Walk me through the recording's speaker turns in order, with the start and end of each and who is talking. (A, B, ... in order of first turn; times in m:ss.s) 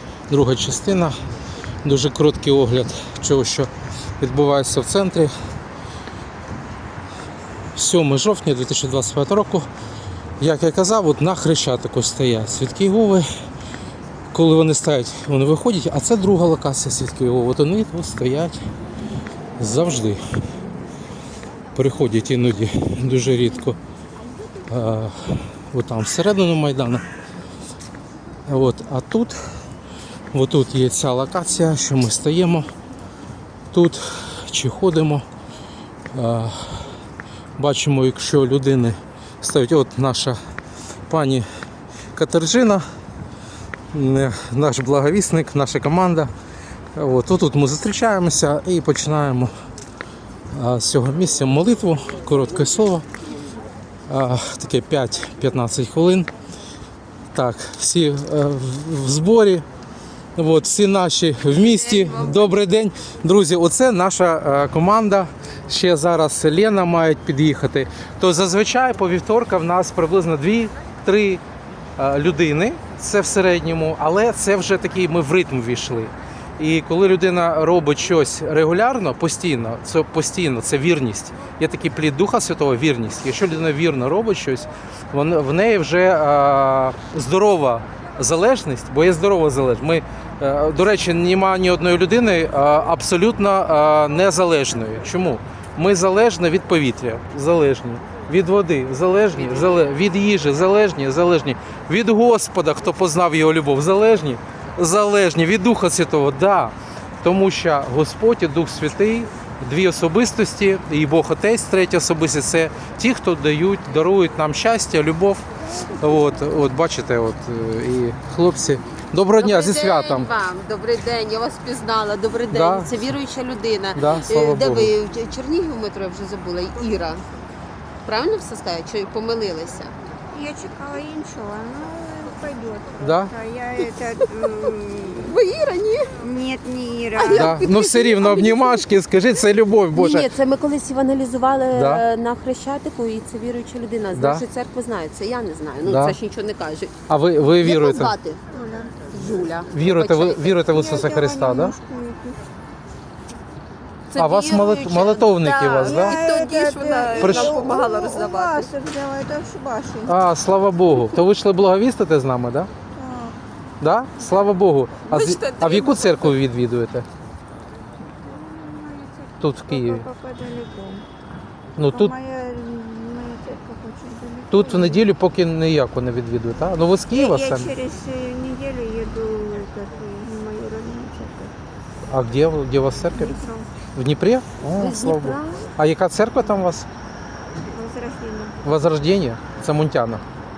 0:00.3-0:01.2 A
0:01.8-0:05.3 A
0:07.8-0:09.7 A
0:10.4-0:13.3 A
0:14.3-0:18.6 A
0:19.6-0:20.2 A
0:21.7-0:23.8 A
0:24.7-0:27.0 A
0:28.5-0:29.4 A
0:30.3-0:32.7 A
0:33.7-0:35.2 A
0:36.1-0:36.9 A
0:37.6-0:40.4 A
0:41.1-0:41.4 A
0:42.1-0:42.8 A
0:43.9-0:46.3 A
0:46.9-0:49.5 A
0:50.5-0:53.0 A
0:54.1-0:56.3 A
0:57.3-0:59.6 A
1:00.4-1:11.4 A
1:01.5-1:02.6 B
1:12.0-1:55.4 A
1:56.0-2:00.3 A
1:59.4-2:07.2 B
2:02.5-2:02.9 A
2:03.9-2:04.9 A
2:08.0-2:09.9 B
2:10.3-2:15.4 C
2:13.0-2:13.3 A
2:15.2-2:16.2 B
2:16.2-2:17.6 C
2:17.1-2:18.9 B
2:17.2-2:20.3 A
2:19.9-2:26.9 B
2:21.7-2:22.0 A
2:24.1-2:24.4 A
2:25.8-2:26.2 A
2:27.1-2:28.1 A
2:27.6-2:28.4 B
2:28.5-2:29.1 C
2:29.1-2:30.7 B
2:29.7-2:31.8 A
2:30.7-2:32.4 C
2:34.1-2:38.7 B
2:34.1-2:36.2 A
2:35.8-2:40.2 C
2:37.2-2:37.6 A
2:40.0-2:42.7 A
2:42.9-2:43.4 C
2:43.8-2:47.0 A
2:45.1-2:46.4 B
2:48.2-2:51.0 C
2:49.4-2:50.0 A
2:51.8-2:52.1 A
2:51.8-2:55.1 C
2:54.5-2:57.7 A
2:57.1-3:01.5 C
3:02.1-3:03.4 A
3:03.1-3:03.7 C
3:03.9-3:06.8 A
3:04.7-3:05.7 B
3:07.7-3:08.6 C
3:08.6-3:10.2 A